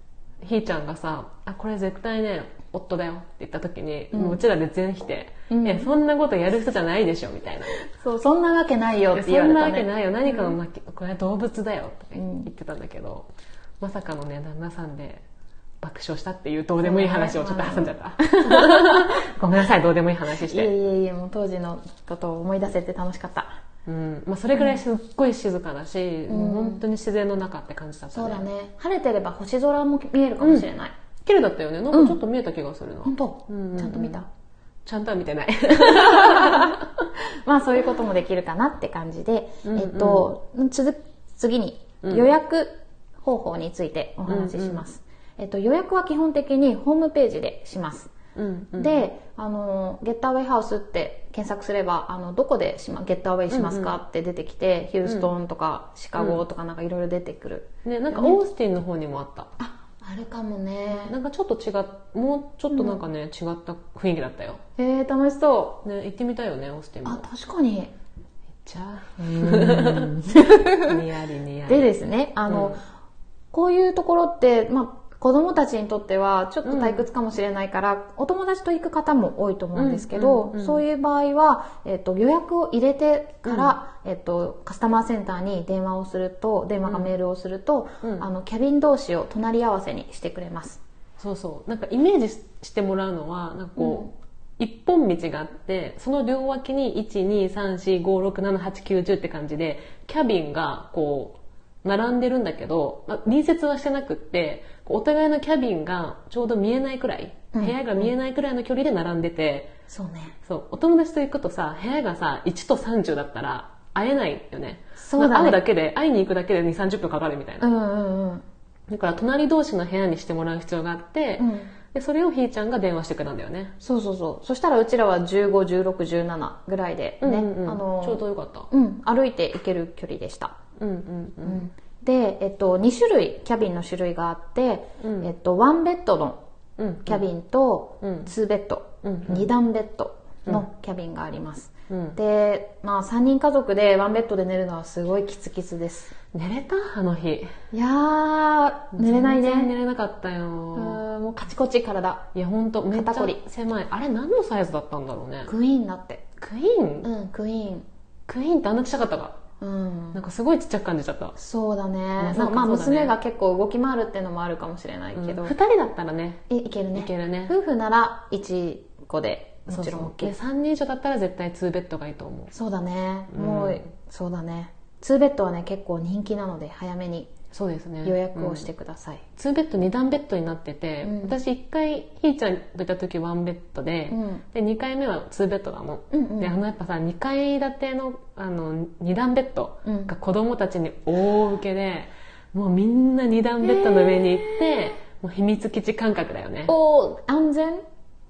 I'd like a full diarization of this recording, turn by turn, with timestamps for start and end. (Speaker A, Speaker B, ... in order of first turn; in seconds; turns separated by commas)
Speaker A: 0.4-7.8, Speaker B: 4.1-4.4, Speaker B: 5.5-5.9, Speaker B: 7.9-10.6, Speaker A: 9.1-13.3, Speaker B: 12.2-12.5, Speaker A: 13.8-15.2, Speaker A: 15.8-20.7, Speaker B: 16.8-19.2, Speaker B: 20.4-23.5, Speaker A: 23.9-28.4, Speaker B: 26.3-26.8, Speaker B: 28.1-30.9, Speaker A: 30.4-30.7, Speaker A: 31.2-34.2, Speaker B: 31.9-32.2, Speaker B: 33.0-34.3, Speaker A: 34.9-37.1, Speaker B: 35.9-36.8, Speaker B: 37.5-48.1, Speaker A: 39.6-40.3, Speaker A: 44.3-44.8, Speaker A: 48.4-49.0, Speaker B: 48.8-58.4, Speaker A: 53.5-54.0, Speaker A: 56.2-56.4, Speaker A: 57.9-59.5, Speaker B: 59.6-61.1, Speaker A: 60.9-64.6, Speaker B: 62.7-63.0, Speaker B: 64.8-65.8, Speaker A: 65.8-67.2, Speaker B: 67.0-67.9, Speaker A: 68.6-71.9, Speaker B: 69.2-71.0, Speaker B: 71.7-72.8, Speaker A: 72.5-72.8, Speaker B: 73.5-90.8, Speaker A: 76.7-77.0, Speaker A: 79.8-80.8, Speaker A: 83.5-83.8, Speaker A: 86.8-87.1, Speaker A: 88.0-88.3, Speaker A: 91.2-109.7, Speaker B: 93.8-94.1, Speaker B: 107.5-108.1, Speaker B: 109.9-110.4, Speaker A: 110.4-117.7, Speaker B: 115.0-115.6, Speaker B: 117.6-118.5, Speaker A: 118.9-123.8, Speaker B: 121.4-121.7, Speaker B: 123.8-130.6, Speaker A: 127.2-128.7, Speaker A: 130.8-131.7, Speaker B: 131.4-136.4, Speaker A: 135.0-135.3, Speaker A: 136.8-137.2, Speaker B: 137.1-146.2, Speaker A: 138.0-138.3, Speaker A: 139.0-139.5, Speaker A: 141.9-142.2, Speaker A: 146.3-147.5, Speaker B: 147.7-149.7, Speaker A: 148.9-151.0, Speaker B: 150.8-152.3, Speaker A: 152.3-155.5, Speaker B: 152.9-153.4, Speaker B: 155.5-156.2, Speaker A: 156.4-157.1, Speaker B: 157.0-157.9, Speaker A: 158.3-159.4, Speaker B: 159.6-160.2, Speaker A: 160.1-161.3, Speaker B: 161.4-165.5, Speaker A: 162.2-163.2, Speaker A: 165.2-167.5, Speaker B: 166.5-170.3, Speaker A: 169.7-172.5, Speaker B: 172.5-177.3, Speaker A: 173.3-173.8, Speaker A: 177.5-178.7, Speaker B: 178.0-179.2, Speaker A: 179.3-196.7, Speaker B: 181.0-181.4, Speaker B: 184.1-184.4, Speaker B: 186.1-186.5, Speaker B: 189.8-190.1, Speaker B: 193.6-194.9, Speaker B: 196.7-197.8